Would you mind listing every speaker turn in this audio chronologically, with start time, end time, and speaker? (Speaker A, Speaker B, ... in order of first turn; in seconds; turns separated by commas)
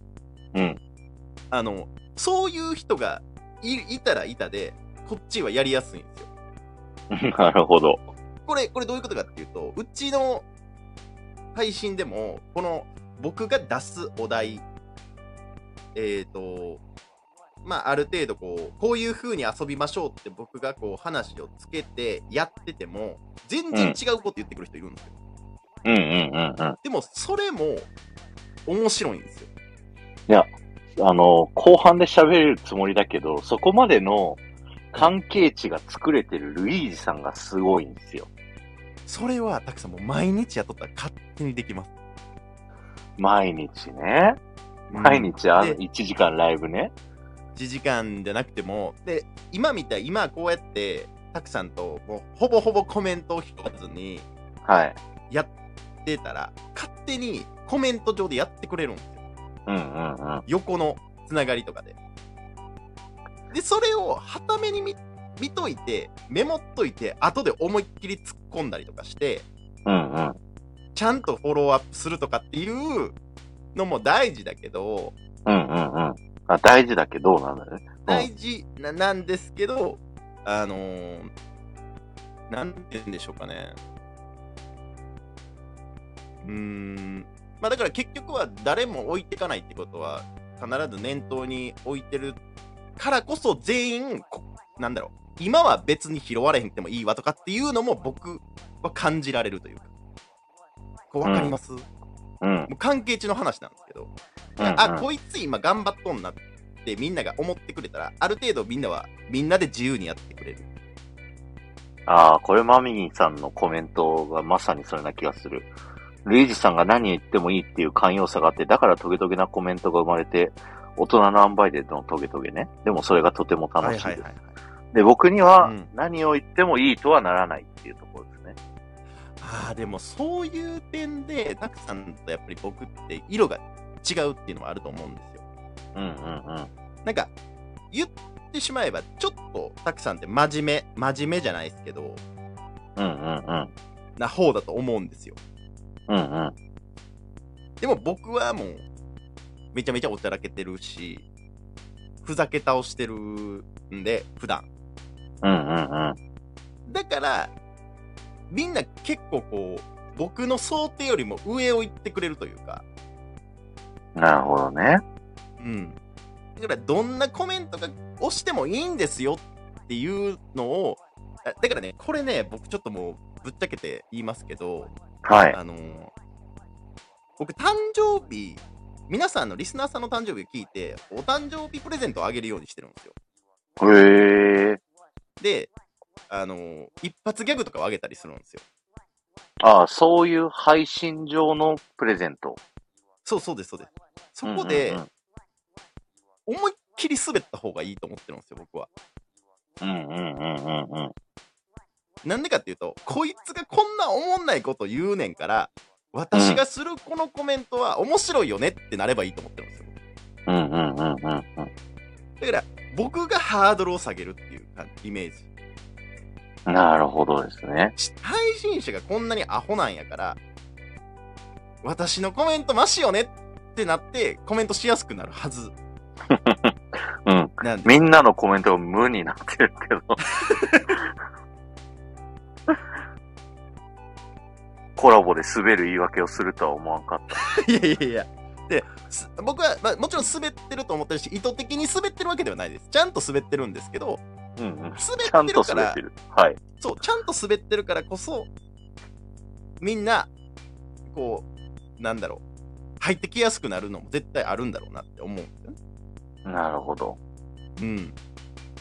Speaker A: 0.5-0.8, Speaker B: 1.5-6.3, Speaker A: 7.1-8.1, Speaker B: 8.5-10.5, Speaker B: 11.6-14.6, Speaker B: 15.9-16.8, Speaker B: 17.6-25.1, Speaker A: 23.7-24.0, Speaker A: 25.9-26.8, Speaker B: 26.8-27.9, Speaker B: 28.7-29.5, Speaker A: 30.3-34.4, Speaker A: 34.9-38.3, Speaker B: 39.1-41.9, Speaker A: 43.2-44.4, Speaker B: 44.9-45.8, Speaker A: 44.9-46.9, Speaker B: 47.6-54.3, Speaker A: 54.6-55.0, Speaker B: 56.0-59.2, Speaker A: 59.7-60.4, Speaker B: 60.5-62.0, Speaker B: 63.5-69.5, Speaker A: 69.9-70.4, Speaker B: 71.0-73.2, Speaker B: 73.8-75.2, Speaker A: 75.5-78.3, Speaker B: 78.1-81.3, Speaker B: 82.5-83.8, Speaker B: 86.4-92.4, Speaker B: 93.0-99.9, Speaker B: 101.1-101.9, Speaker A: 101.2-101.6, Speaker A: 102.4-102.7, Speaker B: 102.7-110.7, Speaker A: 104.6-105.1, Speaker A: 112.1-115.7, Speaker A: 116.2-124.2, Speaker B: 123.8-124.5, Speaker A: 124.9-128.6, Speaker B: 125.6-125.9, Speaker B: 129.4-135.4, Speaker A: 135.9-136.7, Speaker B: 137.1-137.3, Speaker B: 137.9-142.2, Speaker A: 143.0-143.7, Speaker B: 144.2-145.4, Speaker A: 146.1-146.6, Speaker B: 147.8-148.8, Speaker B: 149.7-151.3, Speaker B: 152.2-154.7, Speaker A: 155.4-156.2, Speaker B: 156.9-157.5, Speaker B: 158.5-162.8, Speaker A: 164.2-165.0, Speaker B: 165.6-166.0, Speaker B: 166.6-174.9, Speaker A: 175.2-175.6, Speaker B: 175.5-176.1, Speaker B: 177.4-183.2, Speaker A: 183.8-184.8, Speaker B: 185.4-185.7, Speaker B: 186.3-188.6, Speaker A: 189.6-192.6, Speaker B: 193.2-195.0, Speaker A: 194.4-195.1, Speaker B: 196.5-198.9, Speaker A: 199.8-201.1, Speaker B: 202.2-209.9, Speaker A: 206.3-206.6, Speaker A: 210.5-211.7, Speaker B: 212.4-215.4, Speaker A: 216.7-218.0, Speaker B: 218.0-220.4, Speaker B: 221.8-225.8, Speaker A: 226.3-230.3, Speaker B: 227.6-228.0, Speaker B: 230.5-230.9, Speaker A: 235.0-237.4, Speaker B: 237.4-244.2, Speaker A: 244.6-246.6, Speaker B: 245.0-246.0, Speaker B: 246.8-248.5, Speaker B: 249.8-250.3, Speaker B: 251.1-252.4, Speaker B: 253.0-255.8, Speaker A: 256.4-257.2, Speaker B: 257.8-258.1